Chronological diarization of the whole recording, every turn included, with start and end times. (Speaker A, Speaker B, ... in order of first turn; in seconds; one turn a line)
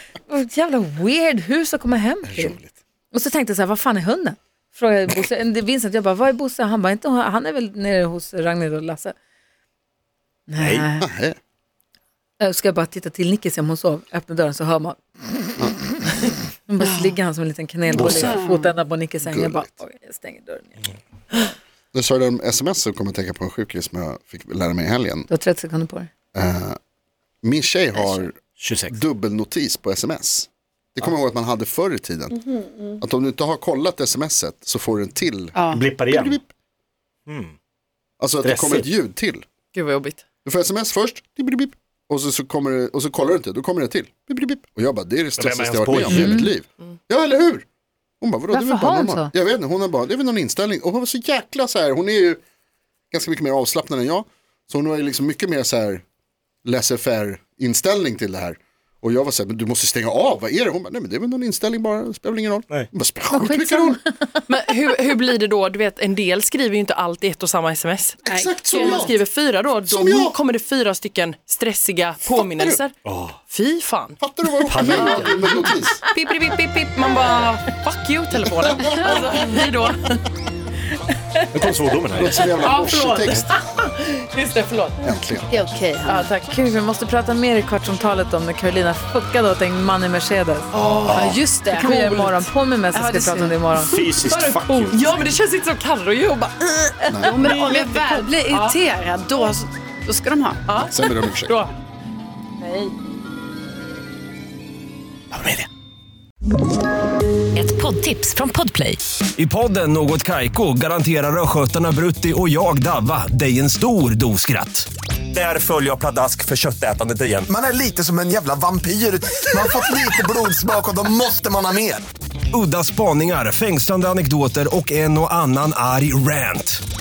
Speaker A: 0.3-2.6
Speaker B: 2.2-2.7
Speaker A: 3.1-9.1
Speaker A: 10.5-11.1
Speaker C: 10.6-10.8
Speaker B: 11.0-11.4
Speaker A: 12.4-20.8
Speaker C: 17.9-18.3
Speaker D: 17.9-18.7
Speaker B: 18.0-18.3
Speaker B: 19.2-19.7
Speaker B: 21.9-25.3
Speaker A: 25.3-26.1
Speaker B: 26.3-26.8
Speaker B: 27.4-32.4
Speaker C: 28.6-29.0
Speaker B: 33.0-36.5
Speaker D: 35.5-35.8
Speaker C: 35.7-36.4
Speaker C: 37.3-37.5
Speaker B: 38.2-39.4
Speaker C: 38.4-38.9
Speaker E: 39.7-40.2
Speaker B: 40.4-47.6
Speaker C: 45.4-46.5
Speaker A: 46.1-46.5
Speaker B: 48.2-52.4
Speaker A: 48.5-49.3
Speaker B: 53.1-56.0
Speaker B: 56.6-64.0
Speaker A: 63.3-64.4
Speaker E: 64.5-72.9
Speaker B: 68.2-69.2
Speaker D: 68.2-69.1
Speaker B: 69.8-70.3
Speaker B: 72.3-72.8
Speaker C: 73.0-73.3
Speaker E: 73.5-74.2
Speaker B: 74.2-76.0
Speaker C: 74.7-75.4
Speaker E: 76.1-80.2
Speaker B: 78.4-79.2
Speaker C: 81.5-82.7
Speaker B: 82.2-83.5
Speaker E: 82.6-85.0
Speaker B: 85.0-85.5
Speaker D: 85.5-86.2
Speaker E: 86.0-86.5
Speaker A: 86.1-90.7
Speaker D: 90.7-91.9
Speaker C: 91.1-91.4
Speaker A: 91.7-94.0
Speaker E: 91.7-92.5
Speaker D: 92.9-93.6
Speaker C: 93.8-95.2
Speaker E: 94.0-98.8
Speaker B: 97.1-97.4
Speaker D: 97.2-100.6
Speaker E: 100.7-100.9
Speaker B: 100.8-101.6
Speaker E: 102.6-102.9
Speaker C: 105.3-105.7
Speaker E: 107.5-109.0
Speaker F: 109.3-117.6
Speaker G: 117.5-122.0
Speaker F: 119.5-120.0
Speaker F: 122.5-126.8